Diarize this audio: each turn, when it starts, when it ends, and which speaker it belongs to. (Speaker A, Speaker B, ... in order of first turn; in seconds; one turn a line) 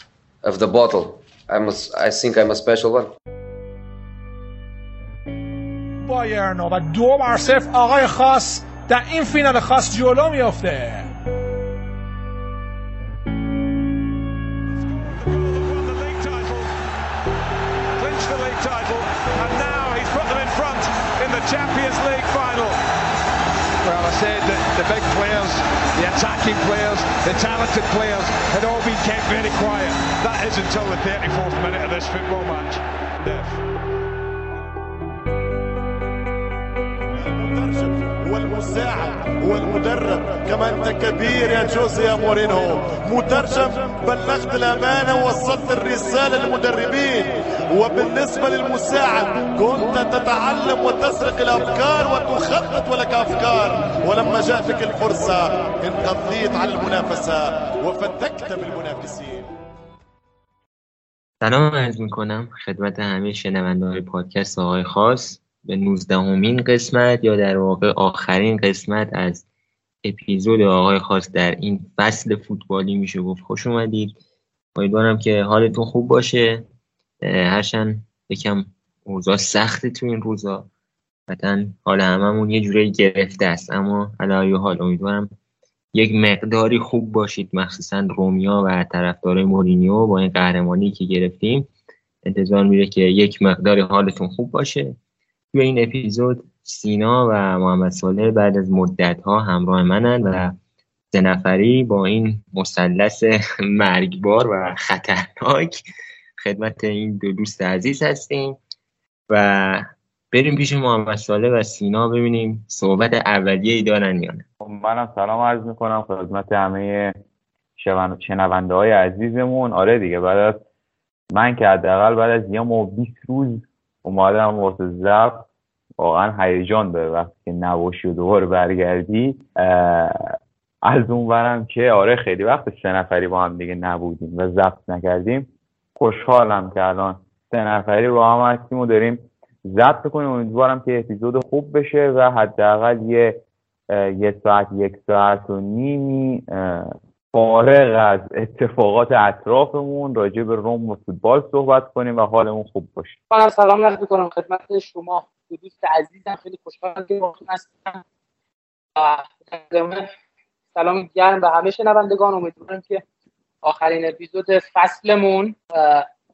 Speaker A: 0.4-3.1
Speaker B: 6.0-11.1
Speaker C: 14.9-16.8
Speaker C: 17.9-22.8
Speaker C: 23.8-33.5
Speaker D: 37.2-59.5
Speaker E: 61.4-69.5
Speaker E: 70.0-74.2
Speaker E: 74.8-76.7
Speaker E: 77.2-80.7
Speaker E: 81.3-85.3
Speaker E: 85.9-91.7
Speaker E: 92.2-95.0
Speaker E: 95.5-100.6
Speaker E: 101.1-105.8
Speaker E: 106.4-108.6
Speaker E: 109.3-114.5
Speaker F: 114.6-117.2
Speaker F: 117.8-120.6
Speaker F: 121.3-125.5
Speaker F: 126.0-153.2
Speaker G: 153.3-158.0
Speaker G: 159.0-160.1
Speaker G: 160.8-163.0
Speaker G: 163.6-166.1